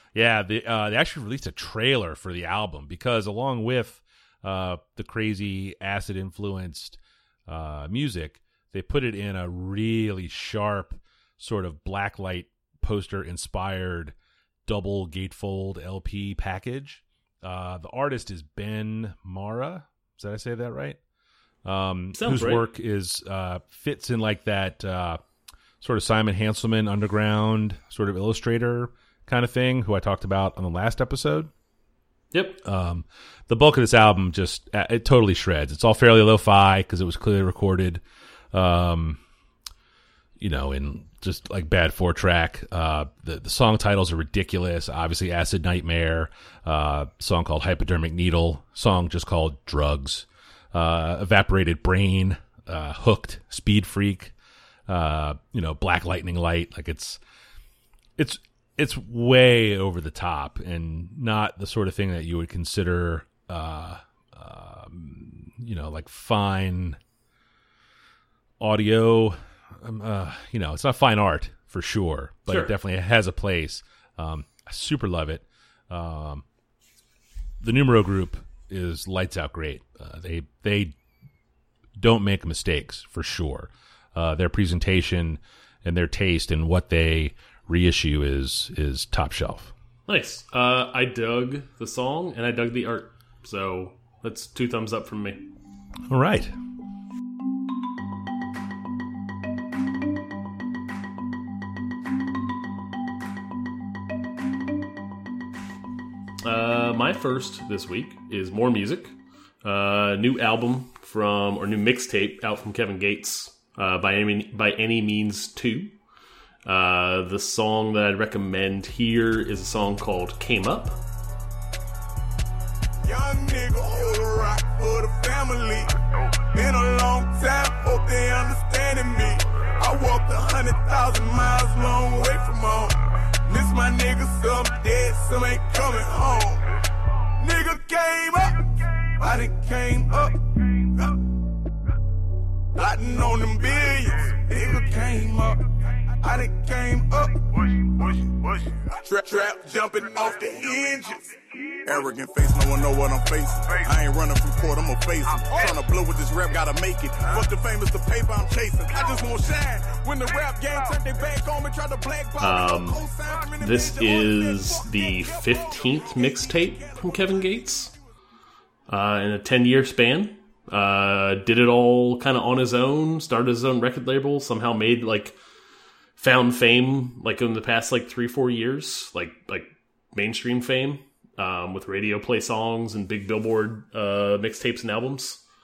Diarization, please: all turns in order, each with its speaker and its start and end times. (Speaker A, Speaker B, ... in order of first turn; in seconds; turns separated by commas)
Speaker A: 0.1-14.1, Speaker A: 14.7-21.0, Speaker A: 21.6-25.2, Speaker B: 22.1-22.6, Speaker A: 25.8-31.5, Speaker B: 32.3-32.6, Speaker A: 32.6-39.2, Speaker A: 40.4-54.3, Speaker A: 54.9-57.2, Speaker A: 58.2-67.0, Speaker A: 68.6-76.4, Speaker B: 72.5-72.7, Speaker A: 77.6-81.0, Speaker A: 82.0-89.7, Speaker B: 90.1-95.4, Speaker A: 96.1-96.5, Speaker B: 106.4-115.9, Speaker B: 116.6-121.0, Speaker C: 123.0-136.6, Speaker C: 137.4-141.2, Speaker C: 142.8-145.6, Speaker C: 146.2-167.3, Speaker B: 162.4-163.0, Speaker B: 163.6-167.9, Speaker B: 168.9-175.4, Speaker B: 176.2-185.4